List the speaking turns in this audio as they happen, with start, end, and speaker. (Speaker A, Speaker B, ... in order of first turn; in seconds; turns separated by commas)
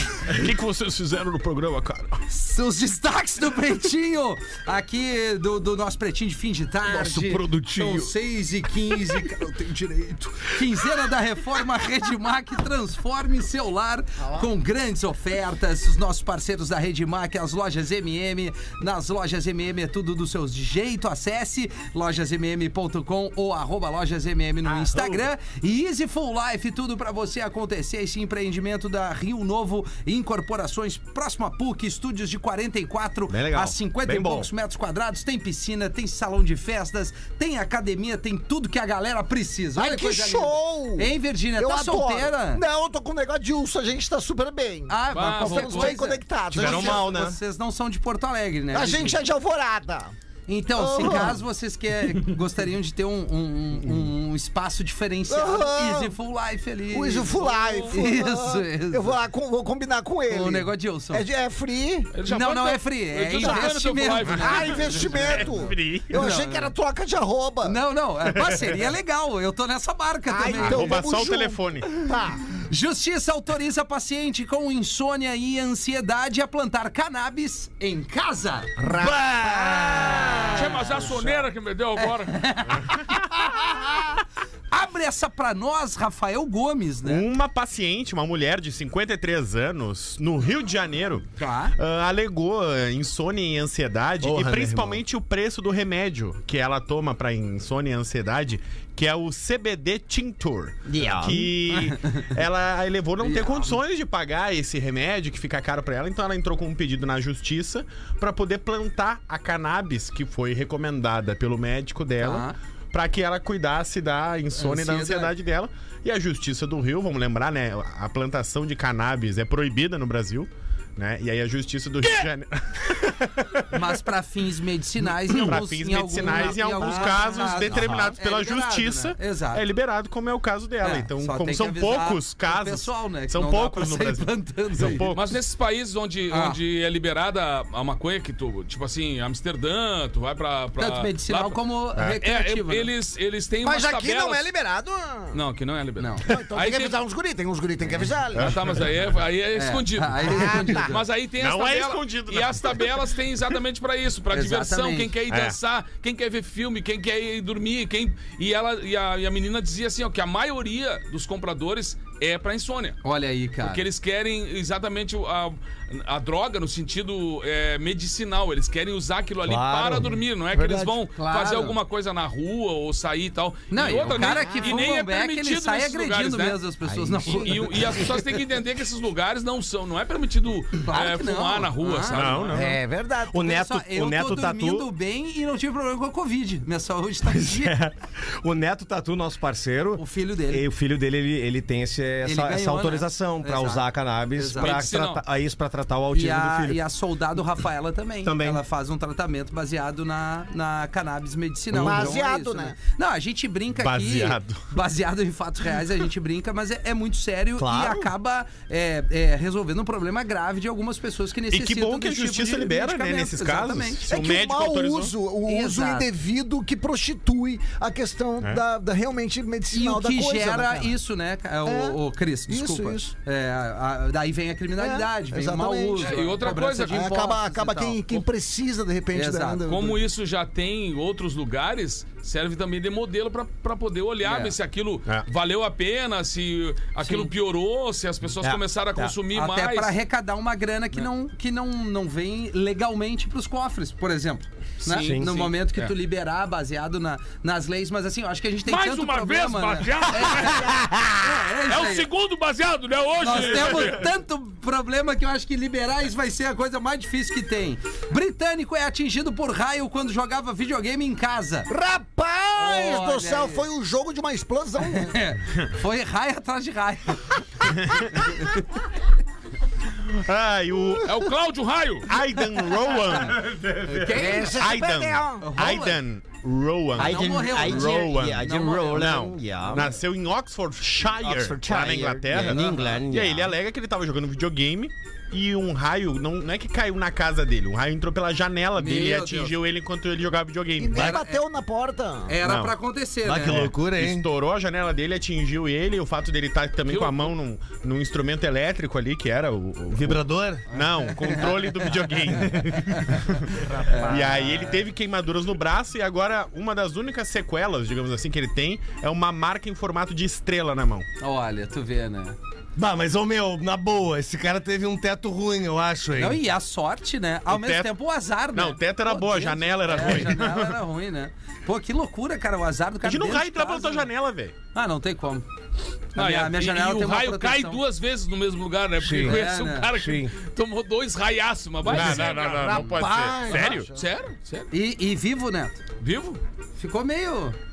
Speaker A: 0.2-2.2, Speaker B: 2.3-42.6, Speaker C: 6.9-8.1, Speaker A: 24.6-25.3, Speaker C: 33.3-34.5, Speaker D: 39.8-47.1, Speaker B: 44.9-49.2, Speaker E: 45.1-46.0, Speaker C: 46.5-47.4, Speaker D: 48.7-50.1, Speaker B: 50.5-59.1, Speaker D: 50.8-51.4, Speaker D: 55.3-56.1, Speaker D: 56.9-62.1, Speaker B: 60.3-61.2, Speaker E: 62.1-65.6, Speaker B: 62.3-65.3, Speaker D: 64.3-67.8, Speaker A: 65.0-66.2, Speaker B: 66.1-66.7, Speaker B: 67.6-71.0, Speaker D: 70.3-72.5, Speaker A: 70.5-71.9, Speaker B: 72.7-78.7, Speaker D: 78.8-81.4, Speaker C: 79.2-80.1, Speaker E: 80.5-82.4, Speaker B: 82.0-83.6, Speaker B: 84.7-87.3, Speaker A: 87.0-123.9, Speaker B: 91.4-91.8, Speaker C: 94.2-95.0, Speaker C: 100.9-101.5, Speaker B: 101.7-102.3, Speaker B: 103.2-103.8, Speaker B: 112.2-112.6, Speaker B: 114.6-115.3, Speaker B: 123.7-129.7, Speaker A: 125.2-135.4, Speaker C: 127.5-128.1, Speaker B: 130.8-135.1, Speaker E: 135.1-144.5, Speaker B: 136.3-136.6, Speaker B: 140.8-142.9, Speaker D: 143.6-145.4, Speaker E: 145.3-147.0, Speaker B: 146.0-146.3, Speaker D: 146.2-148.6, Speaker A: 148.3-148.9, Speaker E: 148.4-163.0, Speaker B: 149.5-151.1, Speaker D: 150.3-151.0, Speaker A: 151.4-153.0, Speaker B: 154.3-155.1, Speaker A: 155.3-155.6, Speaker B: 163.0-163.9, Speaker E: 163.6-176.6, Speaker C: 169.4-170.1, Speaker D: 170.5-171.0, Speaker B: 171.1-171.8, Speaker B: 173.7-177.8, Speaker D: 173.9-174.8, Speaker D: 176.9-178.2, Speaker E: 177.3-182.6, Speaker B: 180.8-182.3, Speaker A: 182.1-182.8, Speaker D: 182.5-183.5, Speaker C: 183.3-184.9, Speaker B: 183.4-187.8, Speaker C: 187.3-196.8, Speaker B: 190.0-190.7, Speaker B: 192.2-194.8, Speaker E: 194.6-195.2, Speaker B: 196.1-214.1, Speaker C: 198.2-198.6, Speaker C: 201.7-202.2, Speaker D: 201.7-202.8, Speaker A: 203.8-204.6, Speaker C: 207.6-208.1, Speaker A: 211.5-215.2, Speaker D: 214.1-220.9, Speaker B: 215.5-216.1, Speaker B: 219.7-228.2, Speaker D: 221.7-223.1, Speaker D: 224.8-226.3, Speaker E: 226.0-227.1, Speaker D: 226.9-230.0, Speaker B: 229.1-229.6, Speaker E: 229.7-239.9, Speaker B: 234.2-234.6, Speaker B: 237.1-237.3, Speaker C: 238.4-239.1, Speaker B: 239.3-252.1, Speaker E: 244.8-245.9, Speaker C: 244.9-245.4, Speaker E: 248.7-250.8, Speaker D: 250.4-251.4, Speaker E: 251.7-254.1, Speaker B: 253.2-261.7, Speaker D: 261.7-265.2, Speaker B: 262.6-263.6, Speaker B: 265.0-268.6, Speaker A: 267.8-268.4, Speaker A: 270.0-271.2, Speaker E: 271.1-272.1, Speaker A: 272.1-273.8, Speaker C: 273.5-274.1, Speaker B: 273.8-274.6, Speaker D: 274.0-275.5, Speaker A: 274.3-291.2, Speaker B: 275.4-276.0, Speaker B: 277.0-279.3, Speaker C: 277.0-279.9, Speaker C: 281.2-283.5, Speaker B: 282.6-282.8, Speaker B: 288.8-289.6, Speaker D: 290.8-292.4, Speaker B: 290.9-291.4, Speaker B: 292.3-293.7, Speaker A: 292.4-292.8, Speaker C: 293.2-294.3, Speaker A: 293.5-311.1, Speaker E: 296.9-297.3, Speaker C: 299.9-300.7, Speaker B: 300.8-301.9, Speaker C: 302.4-303.0, Speaker B: 303.6-304.8, Speaker C: 303.7-304.3, Speaker B: 311.2-312.4, Speaker C: 312.8-316.4, Speaker B: 316.2-324.1, Speaker A: 317.5-317.9, Speaker A: 318.5-320.8, Speaker A: 323.0-324.6, Speaker B: 324.7-325.5, Speaker B: 326.1-327.8, Speaker E: 326.1-334.7, Speaker C: 329.0-330.3, Speaker B: 329.2-329.9, Speaker A: 331.9-333.9, Speaker D: 331.9-334.0, Speaker B: 334.7-335.8, Speaker E: 336.0-336.4, Speaker B: 336.8-337.6